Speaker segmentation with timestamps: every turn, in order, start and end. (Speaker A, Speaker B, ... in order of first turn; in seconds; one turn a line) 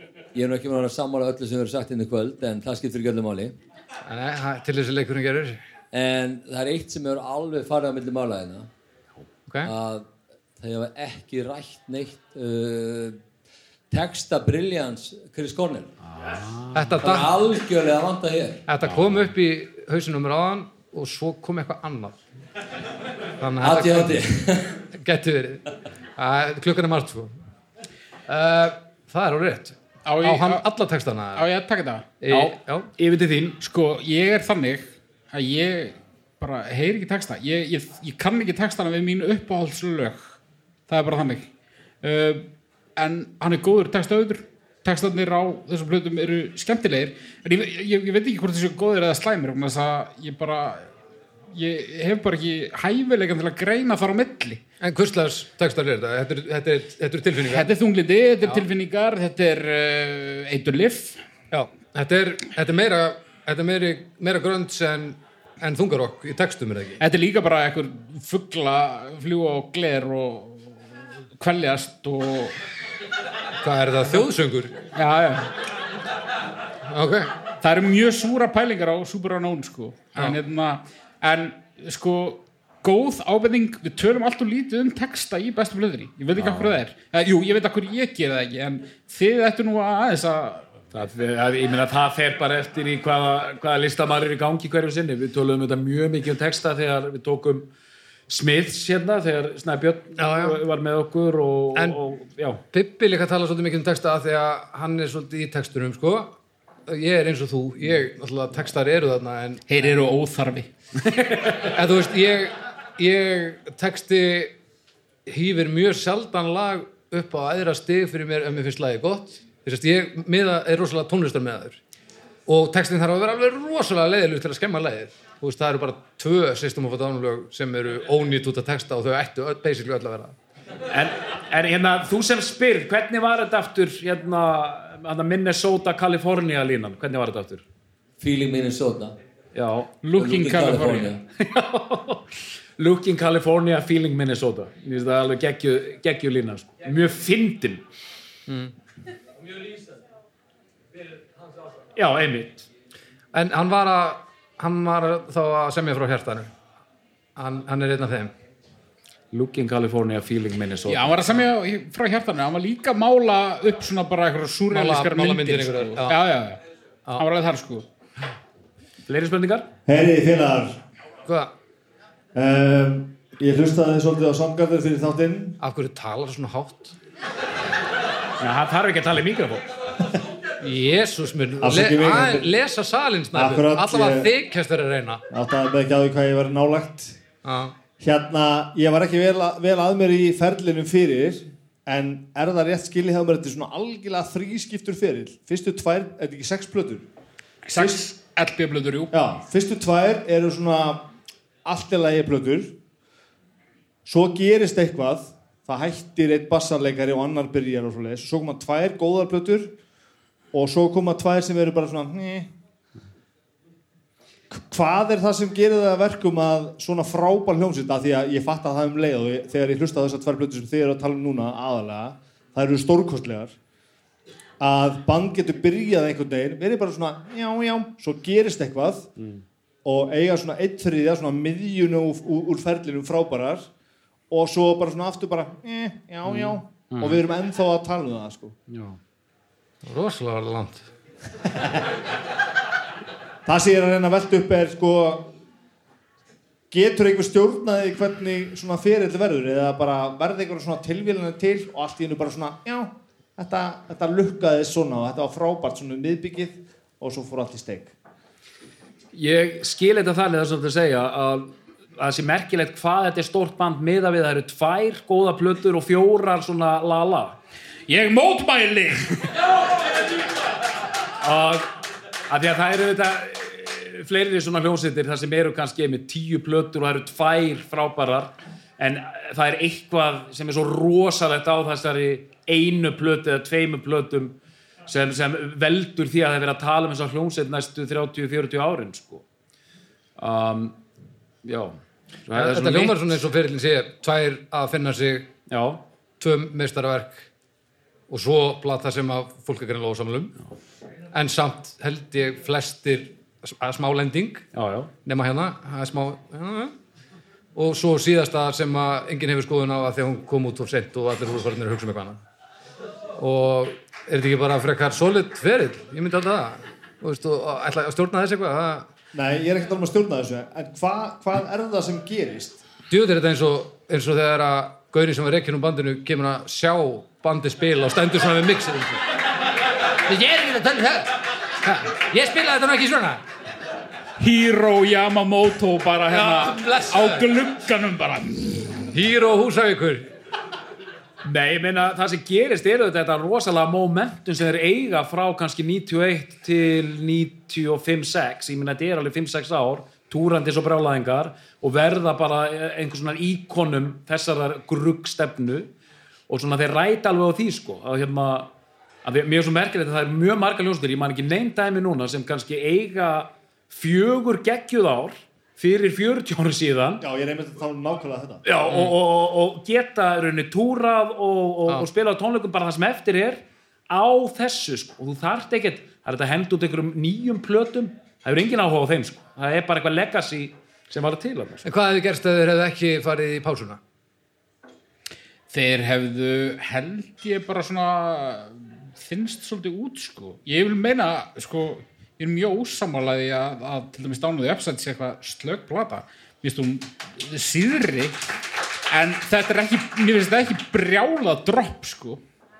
Speaker A: 0.3-3.5
Speaker B: 4.0-5.6
Speaker A: 5.9-8.7
Speaker A: 9.6-10.1
Speaker A: 10.6-13.2
Speaker A: 13.9-15.9
Speaker C: 16.1-16.9
Speaker B: 16.7-17.3
Speaker A: 17.0-18.6
Speaker B: 18.7-22.2
Speaker B: 23.4-24.2
Speaker A: 23.6-24.8
Speaker B: 24.9-25.6
Speaker B: 26.2-27.3
Speaker B: 28.3-31.4
Speaker D: 30.1-30.6
Speaker D: 31.3-32.4
Speaker B: 32.2-32.9
Speaker C: 33.0-33.6
Speaker D: 33.6-40.3
Speaker D: 40.9-41.5
Speaker D: 42.0-50.9
Speaker D: 51.5-54.6
Speaker B: 54.8-57.7
Speaker D: 57.5-61.2
Speaker B: 61.5-67.0
Speaker D: 67.0-72.5
Speaker B: 73.6-74.8
Speaker D: 74.9-75.5
Speaker B: 76.9-77.3
Speaker D: 77.6-90.6
Speaker C: 86.3-86.7
Speaker C: 90.9-97.7
Speaker C: 98.3-102.6
Speaker B: 100.2-100.6
Speaker B: 102.7-106.3
Speaker B: 106.9-109.6
Speaker D: 109.7-110.7
Speaker B: 111.7-114.5
Speaker B: 115.3-121.8
Speaker B: 122.5-130.3
Speaker C: 130.9-137.6
Speaker A: 138.2-139.1
Speaker C: 139.5-139.9
Speaker D: 140.0-141.1
Speaker A: 140.2-141.2
Speaker C: 141.4-142.2
Speaker C: 142.8-147.8
Speaker B: 148.5-148.7
Speaker C: 151.9-152.7
Speaker B: 153.3-156.5
Speaker B: 157.4-158.3
Speaker C: 159.3-161.3
Speaker D: 160.9-166.6
Speaker B: 164.7-166.2
Speaker D: 167.2-167.8
Speaker C: 169.1-169.7
Speaker E: 169.8-170.8
Speaker B: 171.2-171.5
Speaker E: 172.3-175.6
Speaker B: 175.6-176.9
Speaker C: 178.4-179.7
Speaker B: 180.6-185.2
Speaker E: 181.6-182.5
Speaker E: 183.3-184.3
Speaker E: 185.3-187.2
Speaker B: 187.4-187.7
Speaker E: 188.0-197.1
Speaker D: 197.6-199.1
Speaker E: 197.8-198.0
Speaker E: 199.1-201.1
Speaker E: 201.6-202.7
Speaker E: 204.1-209.7
Speaker E: 210.5-212.5
Speaker E: 214.5-223.5
Speaker E: 224.6-229.1
Speaker E: 229.8-233.7
Speaker E: 234.3-238.6
Speaker C: 236.3-237.2
Speaker C: 238.7-239.0
Speaker B: 239.8-240.8
Speaker E: 243.4-245.3
Speaker E: 246.7-257.9
Speaker C: 259.1-267.4
Speaker D: 267.9-269.3
Speaker C: 271.2-271.7
Speaker C: 272.3-284.3
Speaker C: 284.9-289.2
Speaker C: 290.2-290.8
Speaker C: 291.4-293.2
Speaker B: 292.3-295.3
Speaker C: 295.5-295.8
Speaker B: 296.2-297.3
Speaker B: 298.1-300.3
Speaker B: 301.1-304.4
Speaker C: 304.5-304.9
Speaker B: 305.0-306.7
Speaker B: 307.5-312.2
Speaker B: 313.2-318.9
Speaker E: 319.1-322.6
Speaker B: 322.9-329.1
Speaker B: 330.0-333.2
Speaker D: 334.2-338.7
Speaker B: 336.1-337.2
Speaker B: 338.9-340.1
Speaker C: 341.2-355.7
Speaker C: 356.3-358.5
Speaker C: 359.0-367.0
Speaker E: 367.0-368.4
Speaker C: 368.4-381.7
Speaker B: 381.6-383.8
Speaker D: 385.5-398.1
Speaker D: 398.9-402.2